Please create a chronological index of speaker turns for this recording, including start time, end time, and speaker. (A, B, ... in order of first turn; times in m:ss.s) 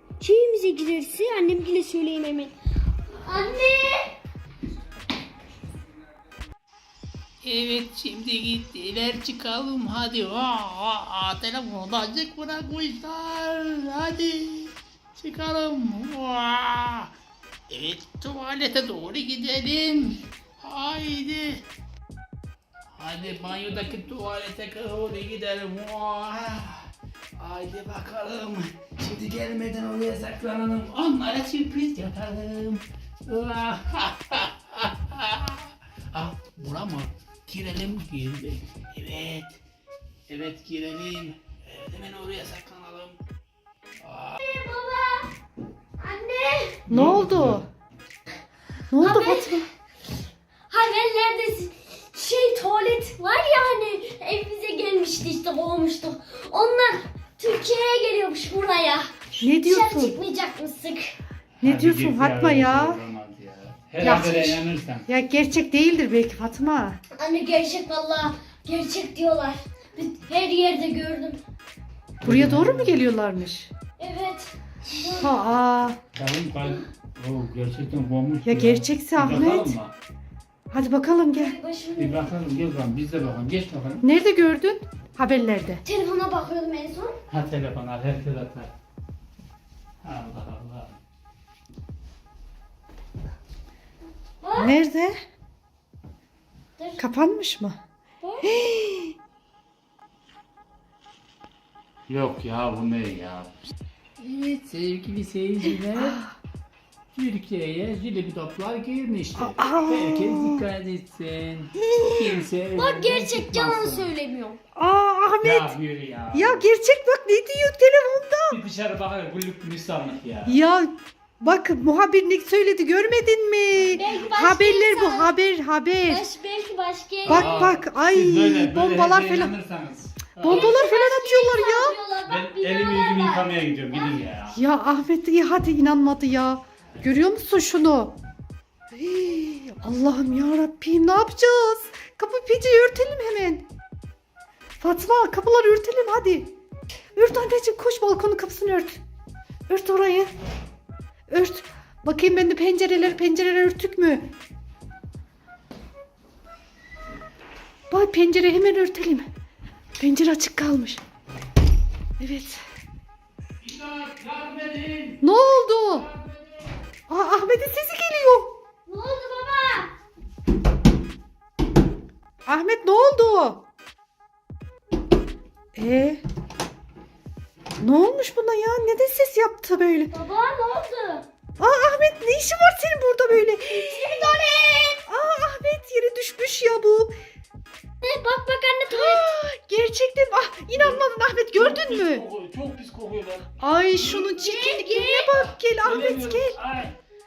0:00.2-0:02.6 A
0:03.1-0:04.1 A
0:07.4-0:17.1 B
0:17.7-0:21.6 B
0:23.0-0:39.6 B
0:40.3-0:43.2 B
0:44.0-0:44.4 B
0:44.4-0:45.3 A
0:46.0-0:46.8 A
0:46.9-0:47.6 B
0:46.9-0:47.7 C
0:48.9-0:49.6 C
0:49.0-0:49.6 A
0:50.7-1:01.2 A
0:59.4-1:00.2 C
1:01.6-1:05.1 B
1:01.6-1:03.0 C
1:04.0-1:07.0 C
1:07.1-1:11.4 A
1:12.2-1:13.1 B
1:12.2-1:13.7 C
1:14.0-1:15.3 A
1:15.2-1:16.0 C
1:16.2-1:19.9 B
1:18.4-1:19.8 C
1:20.7-1:21.6 C
1:21.3-1:22.2 A
1:22.0-1:24.0 B
1:24.0-1:25.8 C
1:25.8-1:27.2 A
1:27.3-1:28.7 B
1:30.0-1:31.0 B
1:34.4-1:34.8 A
1:34.6-1:35.2 C
1:36.8-1:37.1 A
1:37.0-1:37.8 C
1:38.2-1:38.5 A
1:38.4-1:39.1 C
1:42.1-1:43.6 B
1:44.2-1:46.2 B
1:46.0-1:46.3 C
1:47.2-1:54.1 B
1:49.4-1:50.6 C
1:51.9-1:52.2 C
1:52.7-1:54.6 A
1:54.8-1:55.7 C
1:55.4-1:56.7 B
1:56.3-1:58.6 C
1:58.5-2:00.6 B
2:00.5-2:06.3 C
2:03.9-2:05.4 A
2:06.0-2:07.7 A
2:07.3-2:09.6 C
2:07.3-2:10.7 B
2:10.4-2:12.0 C
2:10.5-2:14.2 A
2:12.3-2:14.6 B
2:14.5-2:18.2 C
2:19.0-2:23.6 C
2:24.8-2:26.5 C
2:27.2-2:29.0 C
2:29.7-2:30.3 C
2:31.3-2:34.2 C
2:37.9-2:39.3 C
2:40.0-2:41.0 C
2:42.2-2:42.6 C
2:43.6-2:46.4 B
2:45.2-2:46.1 C
2:47.1-2:48.5 C
2:48.9-2:49.9 A
2:52.5-2:53.6 C
2:55.8-2:56.2 C
2:57.8-3:00.1 C
3:00.1-3:01.3 A
3:01.6-3:04.3 C
3:03.7-3:05.0 A
3:05.1-3:07.1 C
3:08.0-3:09.3 A
3:08.9-3:12.2 C
3:10.7-3:11.0 B
3:11.5-3:14.4 B
3:13.6-3:16.6 C
3:14.3-3:15.3 A
3:15.3-3:17.0 B